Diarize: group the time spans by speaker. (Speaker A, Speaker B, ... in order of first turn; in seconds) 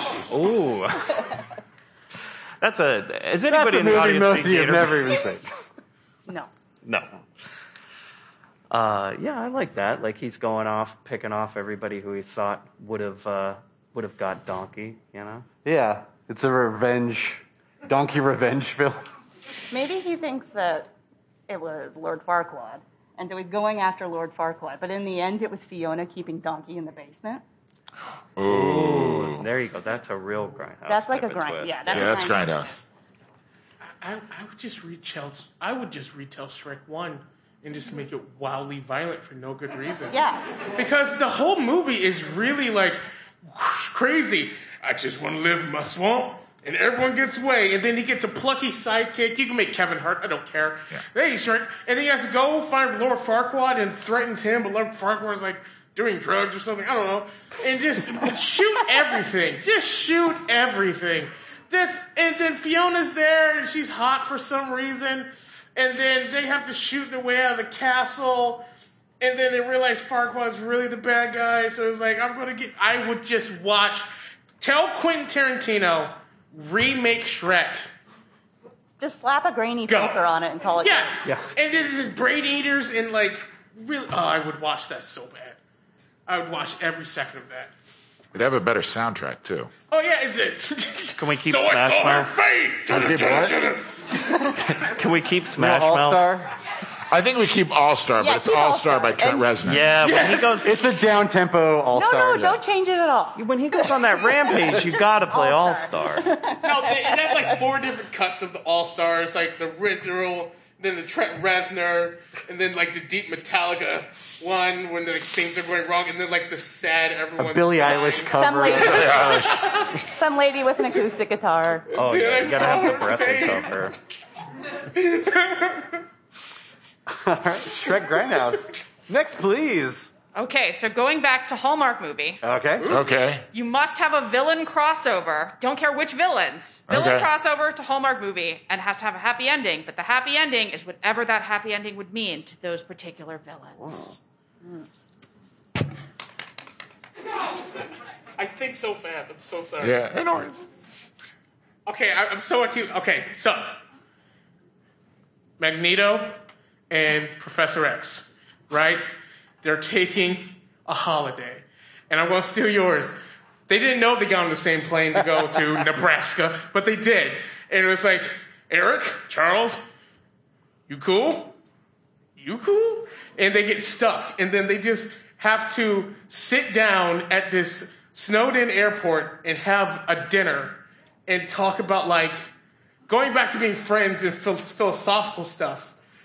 Speaker A: 0.2-1.3, 2.6-5.1, 8.7-15.5, 28.5-32.2, 91.2-92.3, 94.6-96.3, 99.6-100.8, 103.4-106.4, 122.0-124.0
Speaker B: 3.5-5.5, 15.7-19.0, 95.6-96.5, 100.6-102.6, 117.4-119.4, 127.1-130.1, 132.4-132.9
Speaker C: 19.7-20.9, 21.5-27.4, 30.9-32.8, 40.1-40.4, 79.0-81.2, 98.2-99.6, 101.9-103.4, 104.7-107.3, 118.4-121.9
Speaker D: 28.4-29.5, 31.9-32.8, 88.3-89.7, 92.9-93.6, 97.1-100.0, 118.7-119.9, 132.9-133.5, 136.9-137.3, 149.8-150.7
Speaker E: 34.0-40.2, 40.8-68.7, 69.2-74.1, 74.6-77.9, 79.9-80.2, 80.8-85.6, 86.3-87.7, 89.9-94.0, 100.0-100.6, 106.6-118.3, 121.9-123.9, 124.9-126.0, 132.8-133.1, 148.4-149.9, 151.9-153.8, 155.6-156.4, 156.9-159.0, 159.6-163.2, 163.7-169.8, 170.9-171.6, 172.4-182.3, 183.1-185.9
Speaker F: 130.3-132.4, 133.5-144.2